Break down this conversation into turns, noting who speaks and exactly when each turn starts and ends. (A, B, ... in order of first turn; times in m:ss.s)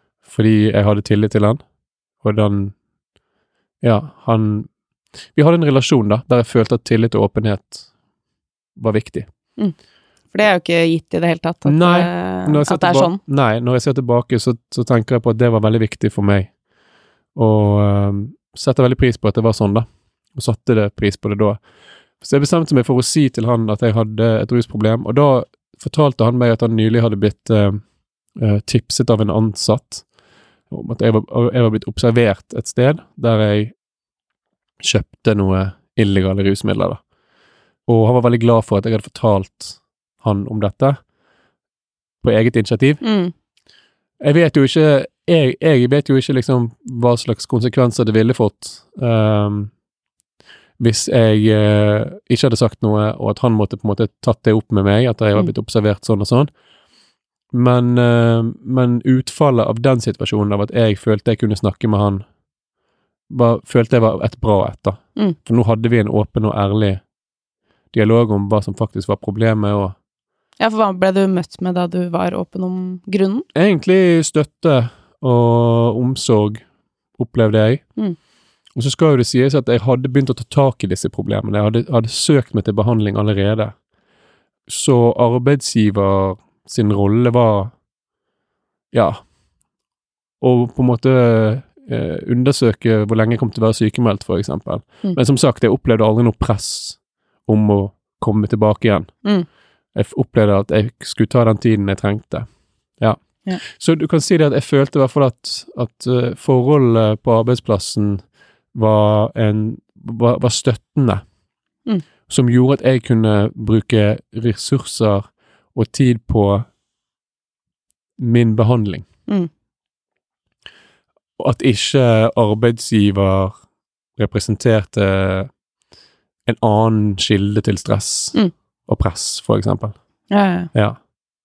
0:00.2-0:01.6 A
0:02.2-0:02.7 A
0:03.8-0:04.7 A
0:05.3-0:07.9 A
0:08.8-0:09.3 A
0:10.3-0:13.2 B
0:11.6-0:16.5 A
0:17.3-0:21.6 A
0:22.2-0:27.8 A
0:28.4-0:30.0 A
0:30.7-0:33.7 A
0:34.8-0:37.0 A
0:37.9-0:41.0 A
0:42.2-0:43.0 A
0:43.0-0:43.3 B
0:44.2-0:49.7 A
0:50.8-0:56.5 A
0:57.5-1:02.2 A
1:03.3-1:07.0 A
1:07.9-1:10.0 A
1:10.6-1:13.4 B
1:13.5-1:16.6 A
1:17.2-1:17.8 A
1:18.7-1:23.7 A
1:24.7-1:27.7 A
1:28.9-1:29.2 A
1:30.4-1:39.1 A
1:39.9-1:42.5 A
1:43.0-1:48.2 A
1:48.7-1:51.2 A
1:52.3-1:56.6 A
1:58.2-1:59.0 A
2:01.4-2:03.5 A
2:04.2-2:05.5 A
2:06.4-2:09.9 A
2:10.3-2:10.7 B
2:10.7-2:11.0 A